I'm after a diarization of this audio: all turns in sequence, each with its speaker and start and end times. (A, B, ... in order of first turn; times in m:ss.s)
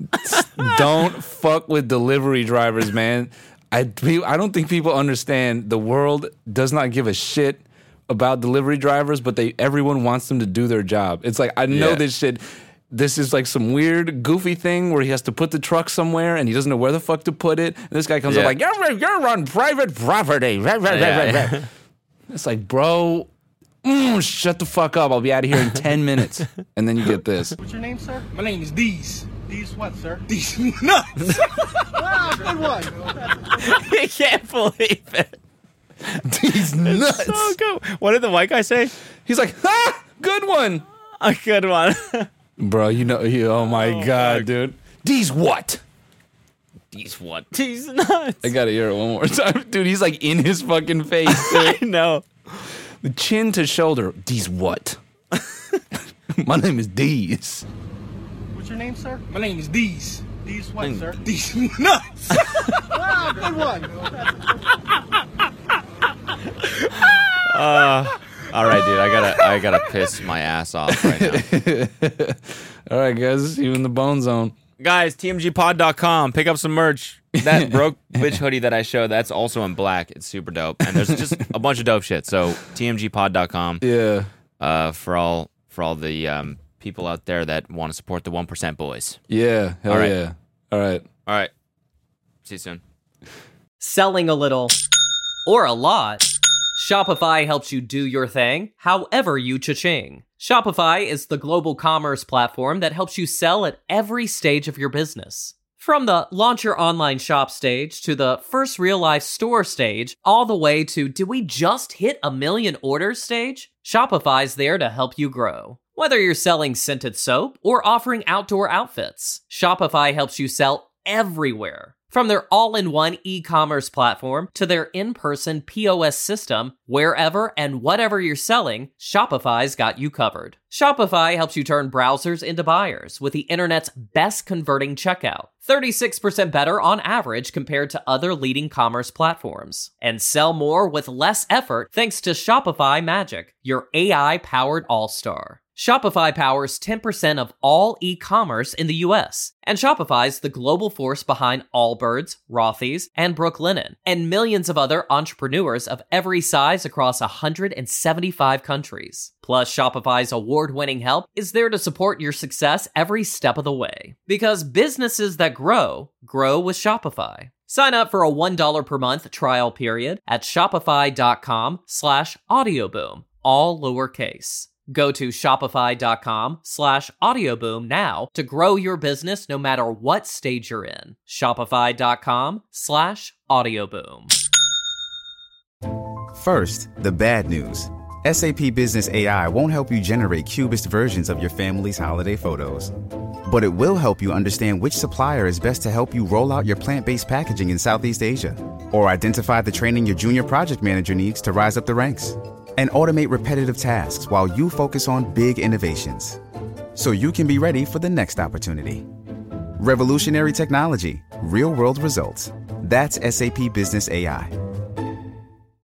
0:00.1-0:21.7 A
0:11.7-0:12.0 B
0:18.3-0:18.6 B
0:20.9-0:21.7 B
0:22.3-0:23.3 A
0:23.8-0:27.6 A
0:27.6-0:28.3 C
0:28.3-0:29.4 D
0:29.4-0:30.2 C
0:30.3-0:31.5 D
0:31.2-0:31.9 B
0:31.9-0:33.8 C
0:33.6-0:35.4 B
0:36.0-0:39.0 B
0:36.2-0:37.6 A
0:39.2-0:40.8 A
0:41.2-0:42.3 B
0:42.6-0:45.8 A
0:43.7-0:44.5 B
0:46.9-0:48.5 B
0:48.4-0:51.8 A
0:51.3-0:52.7 B
0:52.9-0:55.0 A
0:56.3-0:57.7 A
0:58.5-0:59.2 C
0:59.3-1:00.3 D
1:00.3-1:01.2 C
1:00.8-1:01.1 B
1:01.2-1:02.8 D
1:02.9-1:04.8 C
1:07.0-1:11.4 B
1:10.9-1:14.6 A
1:14.8-1:23.8 B
1:17.4-1:18.4 A
1:20.9-1:21.3 A
1:23.8-1:24.3 A
1:24.6-1:29.2 B
1:29.3-1:31.0 A
1:29.9-1:30.2 B
1:31.3-1:31.5 B
1:32.4-1:32.8 B
1:33.8-1:34.8 E
1:35.5-3:04.3 E
3:06.4-3:12.9 F
3:13.5-3:26.4 F
3:27.0-3:29.1 F
3:29.8-3:34.5 F